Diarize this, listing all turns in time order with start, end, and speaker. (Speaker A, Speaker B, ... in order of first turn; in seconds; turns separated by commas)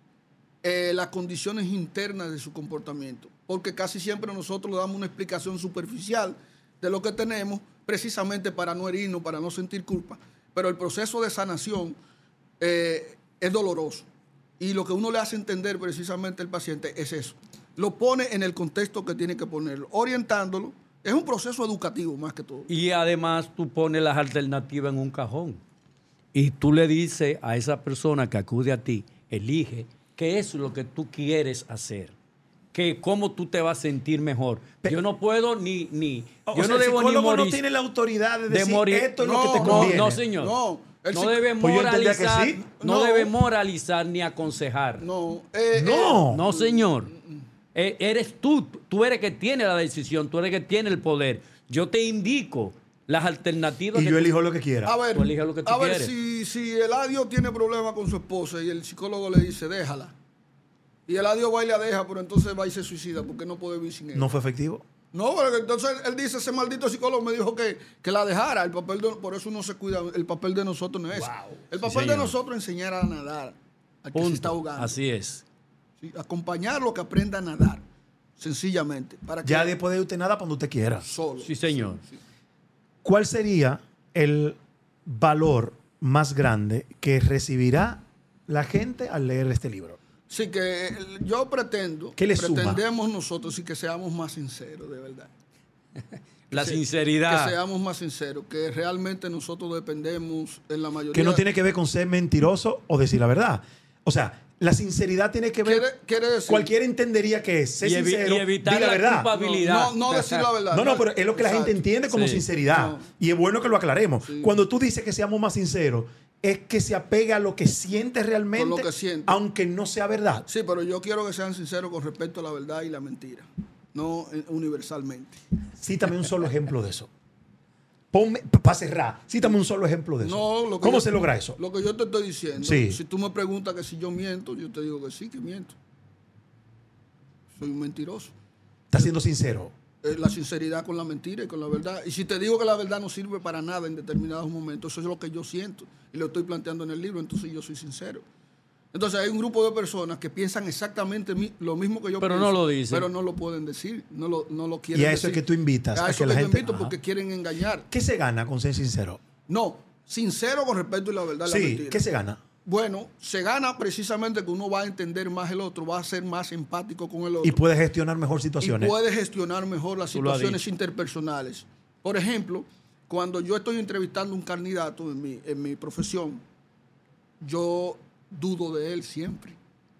Speaker A: 0.6-12.0, Speaker A: 12.6-14.1, Speaker A: 14.6-22.7, Speaker B: 22.7-25.6, Speaker B: 26.3-32.1, Speaker B: 32.7-37.6, Speaker C: 36.5-40.2, Speaker B: 38.5-40.5, Speaker A: 39.2-41.5, Speaker B: 41.1-45.0, Speaker C: 41.6-42.7, Speaker A: 42.7-43.3, Speaker A: 45.0-47.4, Speaker C: 45.7-46.4, Speaker B: 46.3-47.1, Speaker B: 47.7-54.3, Speaker C: 53.9-54.9, Speaker A: 54.8-60.1, Speaker B: 55.1-56.1, Speaker A: 61.1-64.3, Speaker C: 64.1-64.8, Speaker A: 65.1-75.0, Speaker B: 71.8-72.3, Speaker B: 74.1-75.4, Speaker A: 76.0-77.8, Speaker A: 78.4-79.7, Speaker C: 79.4-81.0, Speaker A: 81.0-82.2, Speaker B: 81.4-82.0, Speaker C: 83.0-90.0, Speaker A: 90.3-95.3, Speaker C: 92.2-92.8, Speaker B: 96.5-97.5, Speaker A: 96.5-101.4, Speaker C: 101.1-105.9, Speaker A: 105.6-106.7, Speaker C: 106.5-109.3, Speaker B: 107.8-110.5, Speaker A: 109.3-111.8, Speaker C: 110.7-120.5, Speaker B: 112.1-112.4, Speaker A: 112.7-113.0, Speaker A: 114.2-114.5, Speaker A: 118.5-119.4, Speaker A: 120.5-125.4, Speaker C: 125.8-127.1, Speaker C: 128.1-131.6, Speaker A: 130.2-135.7, Speaker C: 132.6-133.0, Speaker A: 137.6-138.3, Speaker C: 138.9-139.7, Speaker A: 140.0-148.2, Speaker A: 148.9-157.9, Speaker B: 152.2-153.1, Speaker C: 154.9-156.9, Speaker C: 157.9-159.2, Speaker A: 159.5-162.0, Speaker C: 161.4-162.4, Speaker A: 162.6-167.6, Speaker C: 167.4-168.9, Speaker A: 168.6-176.4, Speaker B: 170.1-170.6, Speaker A: 177.4-179.6